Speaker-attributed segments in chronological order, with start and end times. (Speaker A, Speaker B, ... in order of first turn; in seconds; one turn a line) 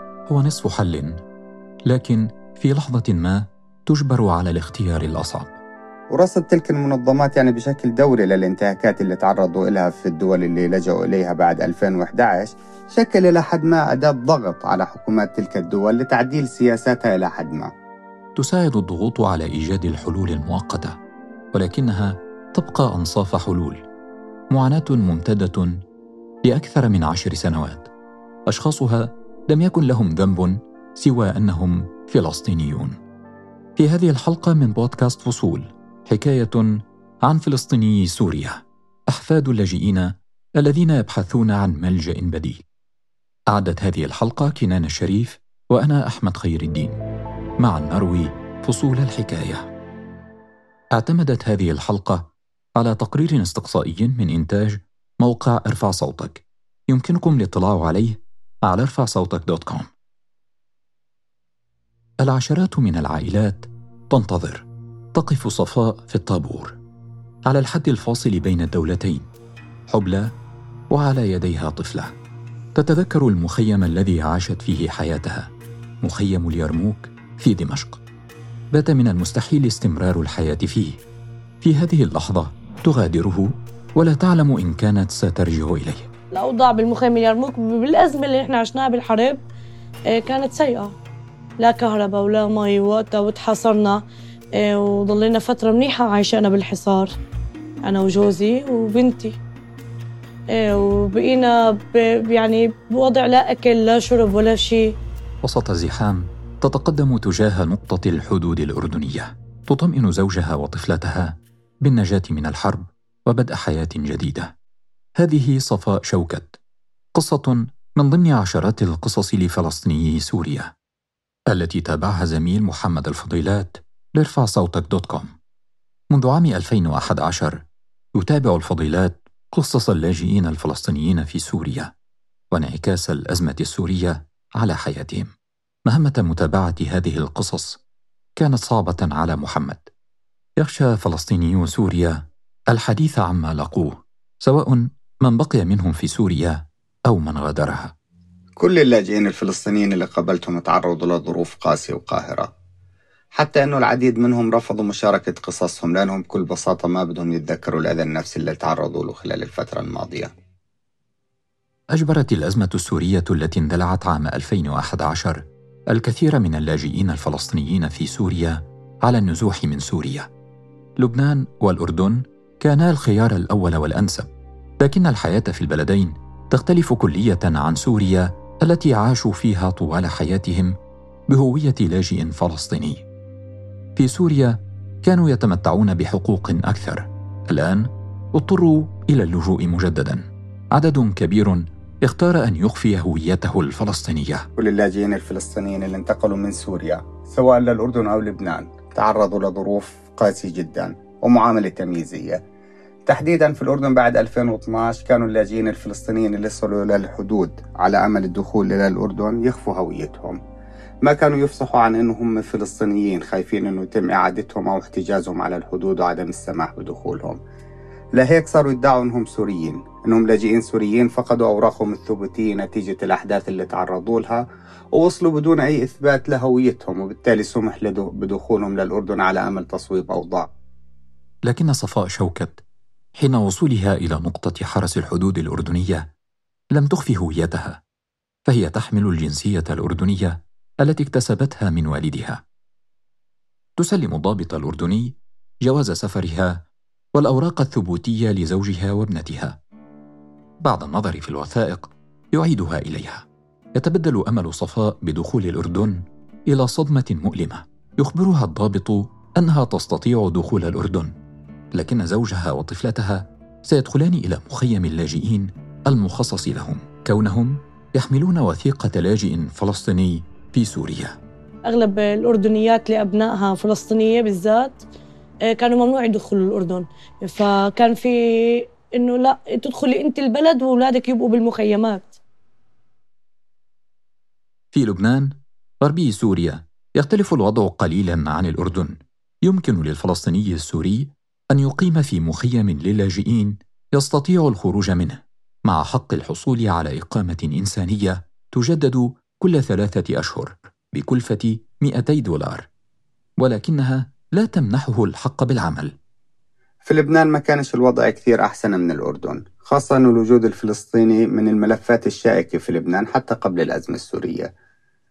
Speaker A: 0.3-1.2
Speaker A: 1.9-5.5
Speaker B: 6.1-17.7
Speaker A: 18.4-20.9
Speaker A: 21.5-23.8
Speaker A: 24.5-25.7
Speaker A: 26.4-27.9
Speaker A: 28.5-33.0
Speaker A: 33.8-36.7
Speaker A: 37.2-42.6
Speaker A: 43.5-47.0
Speaker A: 47.6-49.6
Speaker A: 50.9-59.9
Speaker A: 62.2-66.8
Speaker A: 67.5-69.3
Speaker A: 69.9-70.2
Speaker A: 70.9-72.1
Speaker A: 72.8-75.5
Speaker A: 76.0-78.0
Speaker A: 78.7-81.0
Speaker A: 81.6-86.1
Speaker C: 86.3-89.4
Speaker C: 90.1-91.0
Speaker C: 91.6-94.0
Speaker C: 94.5-97.1
Speaker C: 97.8-99.4
Speaker C: 100.5-105.0
Speaker A: 105.4-114.5
Speaker A: 115.2-116.6
Speaker A: 117.1-120.7
Speaker A: 121.5-125.3
Speaker A: 126.1-127.6
Speaker A: 128.2-131.9
Speaker A: 132.5-135.3
Speaker A: 135.9-137.8
Speaker A: 138.4-139.9
Speaker A: 140.6-147.9
Speaker B: 148.6-152.5
Speaker B: 153.3-160.3
Speaker A: 161.9-170.3
Speaker A: 171.0-174.3
Speaker A: 174.8-180.7
Speaker A: 181.3-183.0
Speaker A: 184.0-194.4
Speaker B: 194.6-202.4
Speaker B: 203.1-210.4
Speaker B: 211.0-217.4
Speaker B: 218.2-230.5
Speaker A: 231.4-232.6
Speaker A: 233.2-236.1
Speaker A: 236.7-237.8
Speaker A: 238.5-242.4
Speaker A: 243.8-246.6
Speaker A: 247.1-249.6
Speaker A: 250.6-253.2
Speaker A: 253.8-261.1
Speaker A: 261.7-271.2
Speaker C: 271.6-274.8
Speaker C: 275.5-282.2
Speaker A: 284.7-302.7
Speaker A: 303.4-305.9
Speaker B: 306.8-314.5